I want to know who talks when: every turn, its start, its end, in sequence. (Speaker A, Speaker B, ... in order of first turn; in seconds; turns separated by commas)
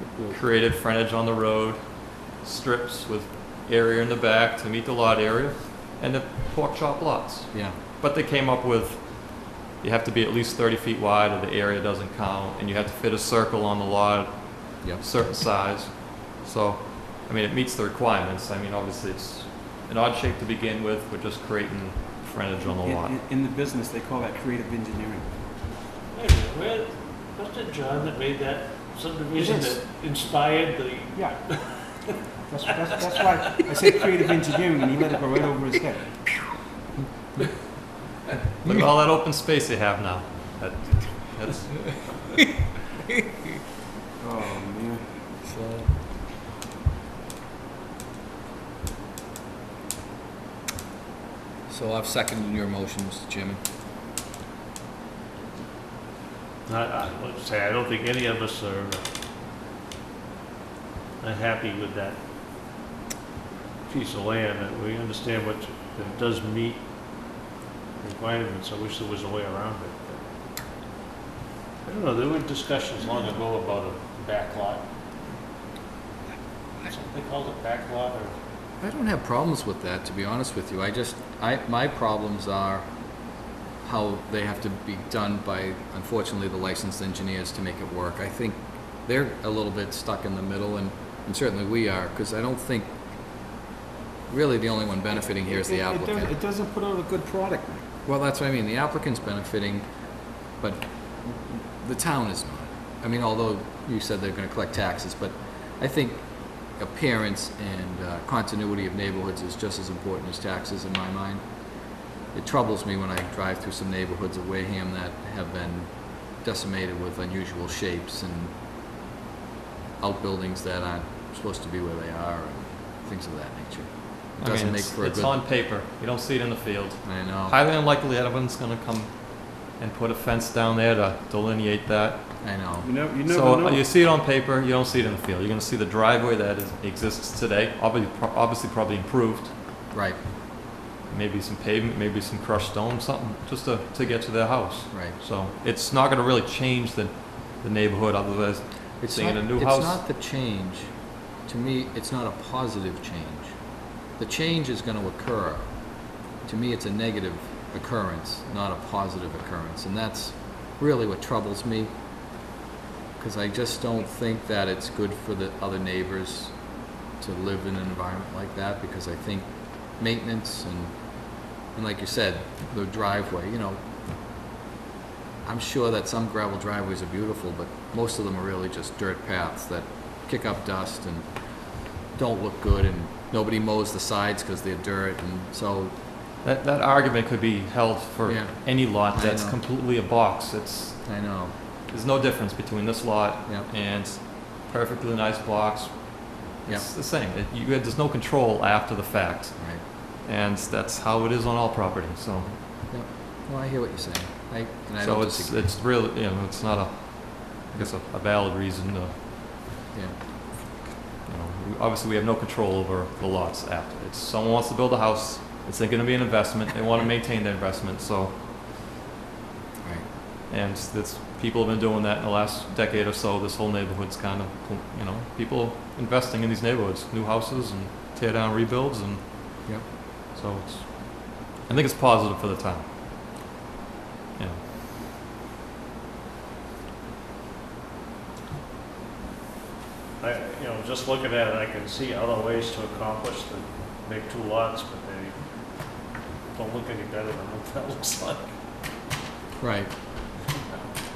Speaker A: 0.3-1.8, Speaker A: 2.3-23.2, Speaker B: 22.7-25.4, Speaker C: 26.1-31.7, Speaker B: 29.3-29.8, Speaker B: 32.5-36.0, Speaker C: 33.3-33.7, Speaker A: 38.6-41.9, Speaker B: 44.2-45.0, Speaker D: 45.4-45.9, Speaker D: 51.7-53.6, Speaker C: 56.7-59.0, Speaker C: 61.2-62.2, Speaker C: 63.9-66.8, Speaker C: 68.0-70.2, Speaker C: 71.8-74.8, Speaker C: 76.8-78.3, Speaker D: 78.8-82.9, Speaker D: 83.8-92.9, Speaker D: 94.3-96.3, Speaker B: 95.4-97.8, Speaker D: 98.0-99.8, Speaker D: 100.5-111.4, Speaker D: 112.3-118.5, Speaker D: 120.0-125.4, Speaker A: 124.4-132.3, Speaker D: 127.0-127.5, Speaker D: 132.4-132.9, Speaker B: 132.8-133.8, Speaker A: 133.2-139.5, Speaker D: 139.9-140.2, Speaker A: 141.1-150.0, Speaker D: 149.0-150.9, Speaker D: 151.4-153.5, Speaker D: 154.2-155.8, Speaker D: 156.4-161.9, Speaker D: 163.2-166.5, Speaker D: 167.2-171.0, Speaker D: 171.7-173.8, Speaker D: 175.4-181.3, Speaker D: 182.1-185.9, Speaker A: 186.4-191.1, Speaker D: 188.2-189.6, Speaker D: 191.0-191.5, Speaker A: 191.9-202.5, Speaker D: 199.6-199.8, Speaker D: 202.9-205.6, Speaker A: 205.0-209.1, Speaker A: 211.2-218.3, Speaker A: 220.5-229.7, Speaker A: 230.3-232.8, Speaker C: 240.2-245.3, Speaker C: 246.5-248.5, Speaker D: 249.6-249.9